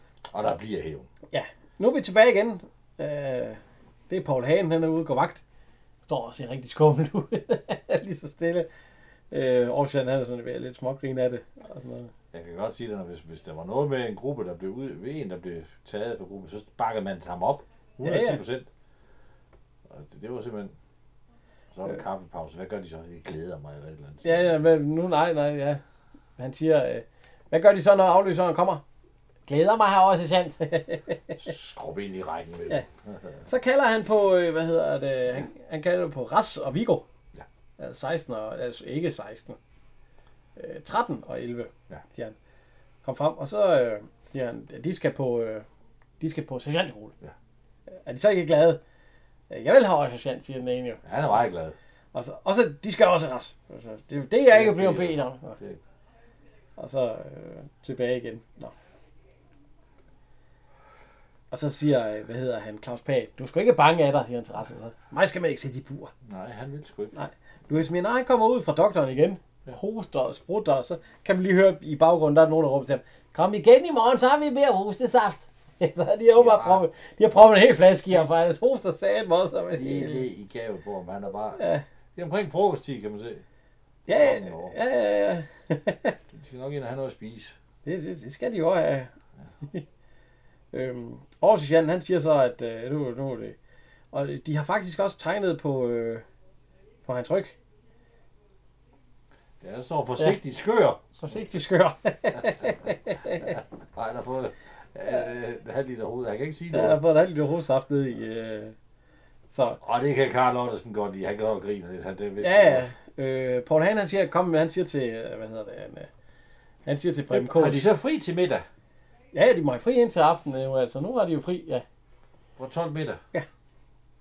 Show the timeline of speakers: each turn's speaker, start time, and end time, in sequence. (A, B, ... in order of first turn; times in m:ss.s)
0:00.3-0:01.1 A
0:01.3-0:05.4 B
0:06.0-0:08.7 B
0:09.3-0:12.1 B
0:12.3-0:18.7 A
0:18.0-0:18.4 B
0:19.9-0:20.8 A
0:21.7-0:24.6 A
0:24.2-0:25.8 B
0:26.4-0:28.8 B
0:29.5-0:31.4 B
0:31.4-0:33.4 A
0:33.5-0:37.1 B
0:37.8-0:39.6 B
0:40.6-0:42.4 B
0:43.0-0:45.7 B
0:46.2-0:47.2 B
0:48.0-0:48.8 B
0:49.5-0:51.4 B
0:51.0-0:51.8 A
0:52.1-0:55.6 B
0:54.5-0:55.8 A
0:56.8-0:58.7 B
1:01.5-1:06.1 B
1:06.2-1:07.2 A
1:07.1-1:20.3 B
1:16.4-1:16.8 A
1:19.8-1:21.6 A
1:21.6-1:21.8 B
1:22.2-1:23.4 A
1:24.1-1:26.2 B
1:24.2-1:24.8 A
1:26.3-1:27.6 A
1:27.8-1:29.1 B
1:30.7-1:33.6 B
1:34.1-1:36.2 B
1:37.0-1:37.6 B
1:39.6-1:41.1 A
1:41.2-1:43.6 B
1:43.4-1:47.0 A
1:46.7-1:48.8 B
1:49.5-1:49.8 B
1:49.8-1:52.9 A
1:52.4-1:56.1 B
1:56.9-1:57.9 B
1:57.3-1:58.7 A
1:59.3-2:01.8 B
2:02.6-2:03.2 A